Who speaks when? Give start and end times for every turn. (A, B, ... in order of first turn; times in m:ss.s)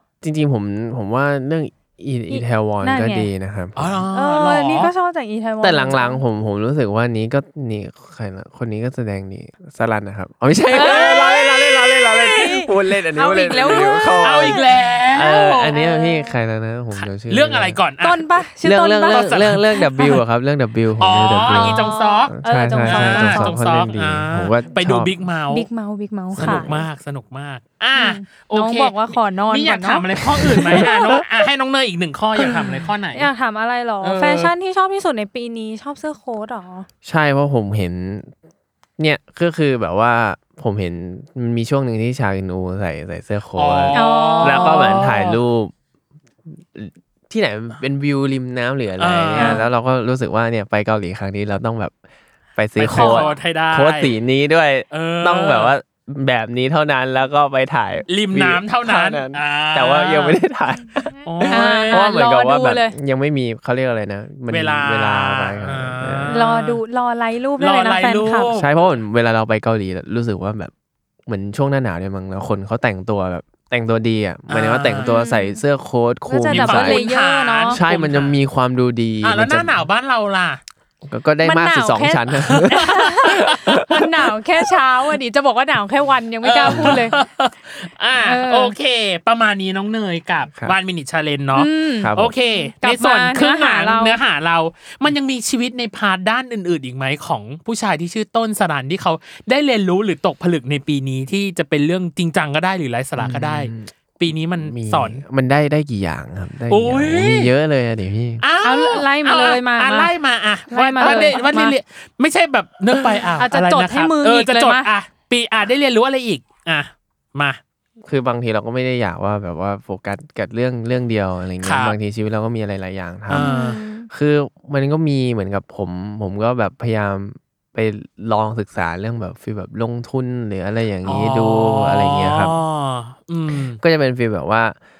0:00.2-0:04.0 A
0:02.3-0:03.3 B
0:03.8-0:04.9 C
0:04.1-0:06.2 B
0:05.6-0:17.8 A
0:10.7-0:14.7 B
0:10.7-0:12.1 C
0:13.6-0:15.7 C
0:15.7-0:16.3 B
0:17.0-0:18.4 C
0:18.0-0:20.2 B
0:18.6-0:25.1 A
0:19.1-0:19.6 C
0:21.0-0:22.3 C
0:21.1-0:23.5 B
0:22.8-0:25.7 C
0:25.5-0:26.7 B
0:26.3-0:26.9 A
0:26.3-0:33.3 C
0:27.9-0:31.2 B
0:33.1-0:36.9 B
0:34.0-0:34.5 C
0:37.0-0:38.3 A
0:39.0-0:45.7 A
0:43.6-0:45.4 C
0:43.9-0:45.1 B
0:46.5-0:51.9 A
0:49.0-0:49.6 C
0:49.4-0:49.6 B
0:52.6-1:06.3 A
0:52.8-0:54.1 C
0:52.9-0:53.4 B
0:54.9-0:55.7 C
0:58.1-1:00.4 C
1:01.2-1:02.0 C
1:01.4-1:02.9 B
1:04.5-1:06.8 C
1:06.3-1:08.5 B
1:07.6-1:08.7 C
1:08.5-1:10.7 A
1:11.2-1:17.0 A
1:14.5-1:15.1 C
1:15.0-1:15.6 B
1:16.3-1:17.8 B
1:16.5-1:18.4 C
1:17.7-1:19.8 A
1:19.2-1:20.6 C
1:21.0-1:24.1 A
1:21.4-1:27.2 B
1:22.4-1:23.4 C
1:26.4-1:45.2 C
1:26.6-1:27.0 A
1:28.2-1:28.7 B
1:31.5-1:34.2 B
1:32.0-1:32.3 A
1:43.2-1:43.9 A
1:44.6-1:48.4 A
1:46.7-1:47.5 C
1:48.4-1:57.6 C
1:48.6-1:50.1 B
1:50.7-1:51.8 B
1:51.0-1:51.4 A
1:53.4-1:54.9 B
1:58.0-2:12.5 A
2:01.6-2:02.0 C
2:03.3-2:03.8 C
2:03.3-2:04.1 B
2:11.0-2:13.8 C
2:13.8-2:14.8 A